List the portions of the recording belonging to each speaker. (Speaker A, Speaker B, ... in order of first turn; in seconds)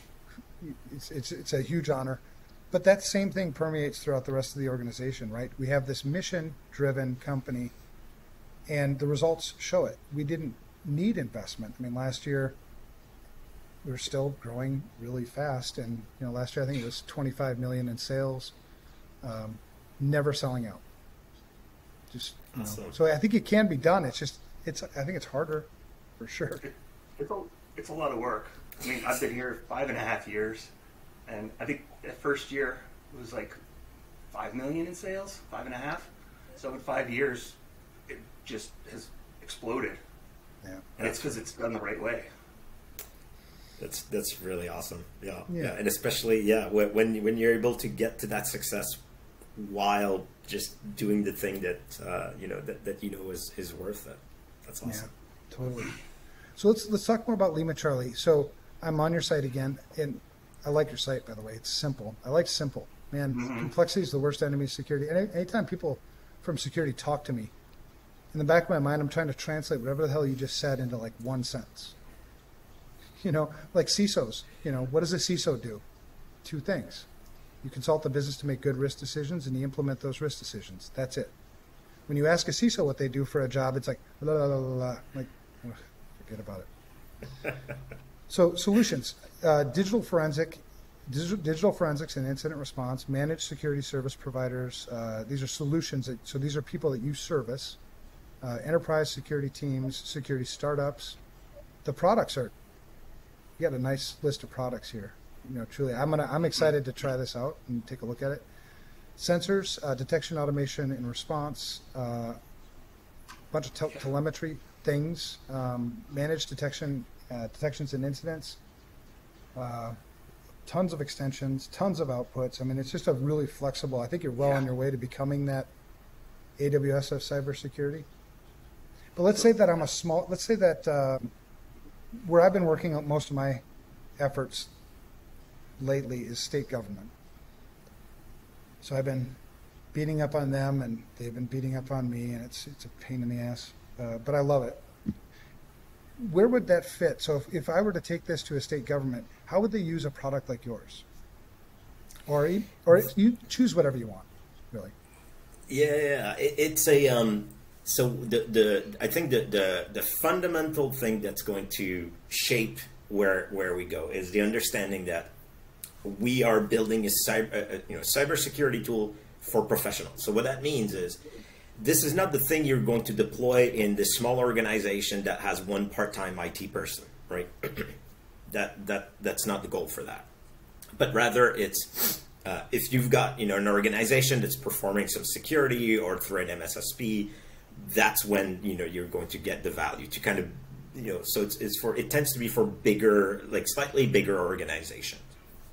Speaker A: 0.6-7.7, 8.7-12.6, 13.8-18.5, 19.2-20.8, 22.1-26.6, 40.6-40.9, 45.5-45.8, 54.8-55.9, 56.5-67.5, 68.3-71.9, 73.2-75.8, 76.4-77.1, 77.6-81.3, 82.1-86.7, 88.3-97.8, 98.4-101.2, 101.8-102.5, 103.6-108.5, 109.2-112.4, 113.5-118.6, 119.5-120.0, 120.6-125.7, 126.6-128.1, 129.1-131.3, 132.2-133.6, 134.2-134.7, 135.8-137.1, 138.8-139.4, 139.9-144.9, 146.2-151.0, 152.3-154.9
Speaker B: 22.5-23.0, 43.8-49.0, 49.5-55.1, 155.7-165.3, 166.0-171.2, 171.8-177.9, 178.5-180.3, 180.9-195.3
Speaker C: 26.6-30.7, 31.3-33.5, 34.3-37.5, 38.1-40.0, 41.0-42.3, 63.3-63.7